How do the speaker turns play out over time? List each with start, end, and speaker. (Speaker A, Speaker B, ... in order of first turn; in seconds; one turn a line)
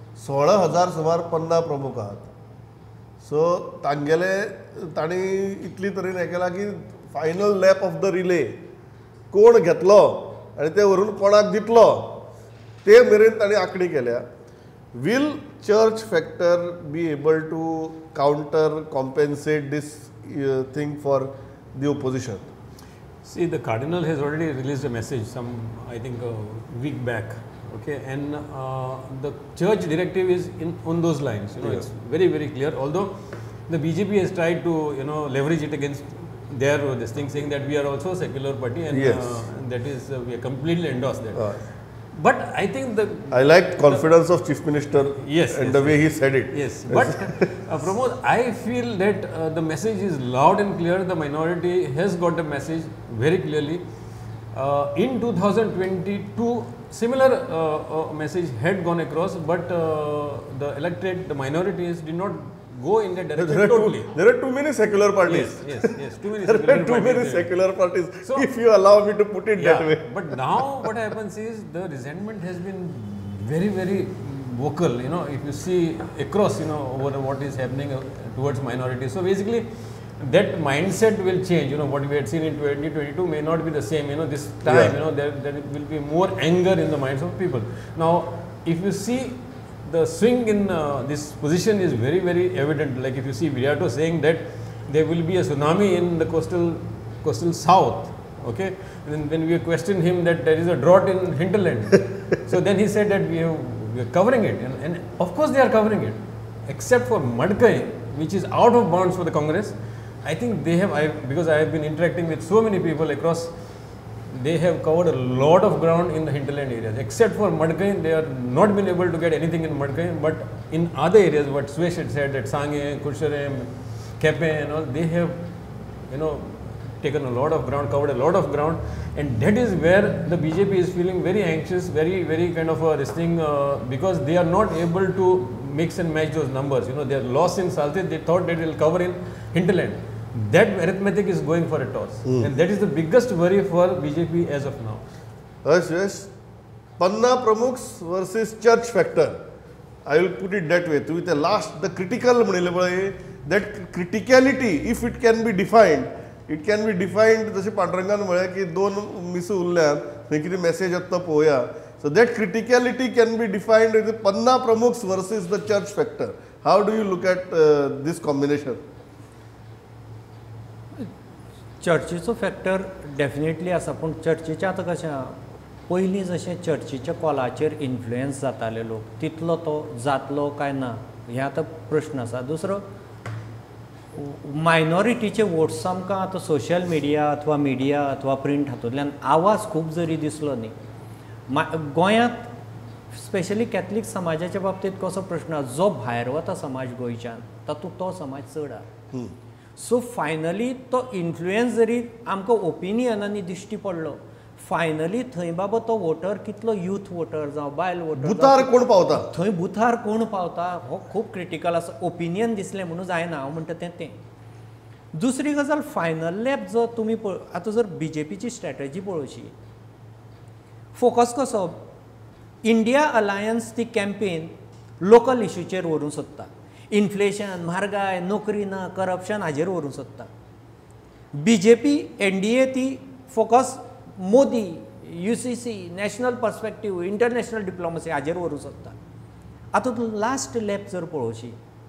Speaker A: 0.2-2.3
Speaker A: 3.2-8.6
Speaker A: 9.3-12.3
Speaker A: 12.8-14.3
Speaker A: 14.9-22.5
Speaker B: 23.2-44.1
Speaker A: 38.9-39.4
Speaker A: 41.4-41.6
Speaker A: 43.3-47.5
Speaker B: 45.2-53.8
Speaker B: 54.5-64.2
Speaker A: 63.4-65.9
Speaker B: 65.2-67.5
Speaker A: 66.4-70.3
Speaker B: 69.6-113.5
Speaker A: 84.7-85.0
Speaker B: 114.3-145.0
Speaker A: 142.3-142.5
Speaker A: 145.6-146.3
Speaker A: 147.0-149.4
Speaker A: 150.1-168.8
Speaker C: 171.8-182.9
Speaker C: 184.1-190.8
Speaker C: 191.5-192.5
Speaker C: 193.1-198.9
Speaker C: 199.8-214.2
Speaker A: 208.2-209.3
Speaker C: 215.1-219.5
Speaker C: 220.9-221.9
Speaker C: 222.6-230.3
Speaker C: 231.3-239.0
Speaker C: 239.7-241.6